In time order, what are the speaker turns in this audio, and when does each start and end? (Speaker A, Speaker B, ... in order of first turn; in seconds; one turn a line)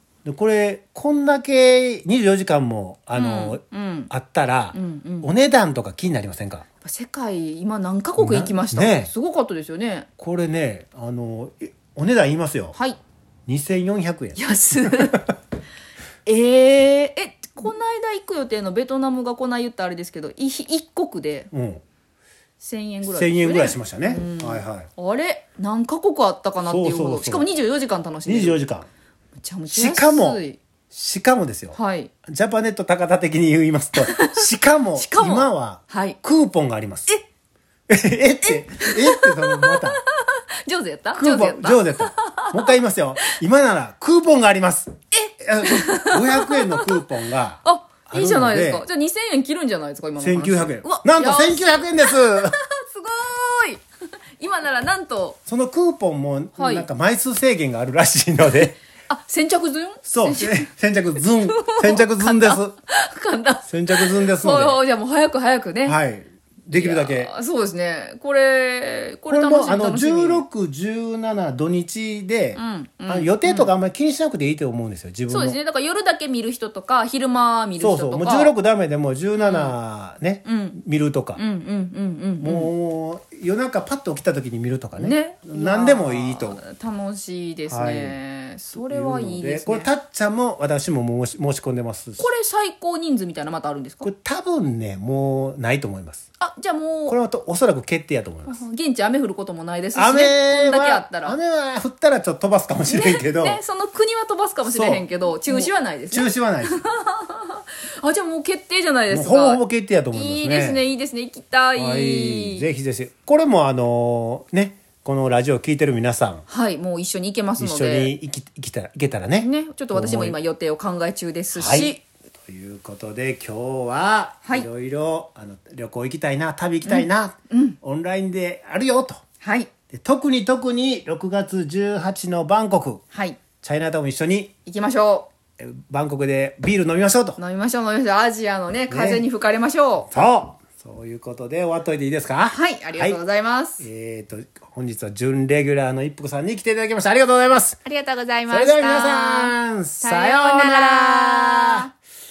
Speaker A: 0.2-6.7
Speaker B: 3.2-4.1
Speaker B: 4.7-5.3
Speaker B: 6.8-10.1
Speaker A: 8.2-9.1
Speaker A: 10.2-12.8
Speaker A: 13.5-15.2
Speaker B: 14.4-15.2
Speaker B: 16.3-21.5
Speaker A: 21.5-21.8
Speaker B: 22.6-28.6
Speaker A: 23.1-24.9
Speaker A: 26.6-27.5
Speaker A: 28.2-28.9
Speaker B: 29.4-30.6
Speaker A: 29.7-37.1
Speaker B: 31.7-32.1
Speaker B: 34.0-36.2
Speaker A: 37.9-40.0
Speaker B: 38.5-43.2
Speaker A: 41.1-48.9
Speaker B: 45.2-47.0
Speaker B: 47.6-53.8
Speaker A: 50.2-52.6
Speaker B: 54.4-55.4
Speaker A: 55.5-58.8
Speaker B: 56.6-56.9
Speaker B: 59.1-66.0
Speaker A: 60.1-62.8
Speaker A: 63.7-64.8
Speaker A: 65.8-67.3
Speaker B: 66.7-70.4
Speaker A: 69.3-75.6
Speaker B: 72.5-73.7
Speaker B: 75.3-78.5
Speaker A: 77.8-81.4
Speaker B: 79.4-79.7
Speaker B: 80.5-80.8
Speaker B: 81.4-82.7
Speaker A: 82.4-86.6
Speaker B: 85.0-89.9
Speaker A: 87.7-88.2
Speaker A: 88.7-92.3
Speaker B: 92.2-94.1
Speaker A: 94.0-96.2
Speaker B: 96.4-97.2
Speaker A: 97.1-98.6
Speaker B: 98.5-101.4
Speaker A: 100.0-103.6
Speaker B: 102.9-109.6
Speaker A: 104.6-106.8
Speaker A: 109.1-110.8
Speaker B: 110.1-112.7
Speaker A: 111.8-116.5
Speaker B: 116.5-118.1
Speaker A: 117.6-120.4
Speaker B: 119.4-122.0
Speaker A: 121.5-122.0
Speaker A: 122.5-129.2
Speaker B: 126.8-127.8
Speaker B: 129.4-129.7
Speaker A: 129.9-133.0
Speaker B: 133.1-133.4
Speaker A: 133.6-134.5
Speaker B: 134.7-135.3
Speaker A: 135.6-137.4
Speaker B: 137.4-140.1
Speaker A: 138.9-139.3
Speaker A: 140.1-143.2
Speaker B: 142.5-143.8
Speaker A: 143.8-147.8
Speaker B: 147.8-151.9
Speaker A: 148.5-151.9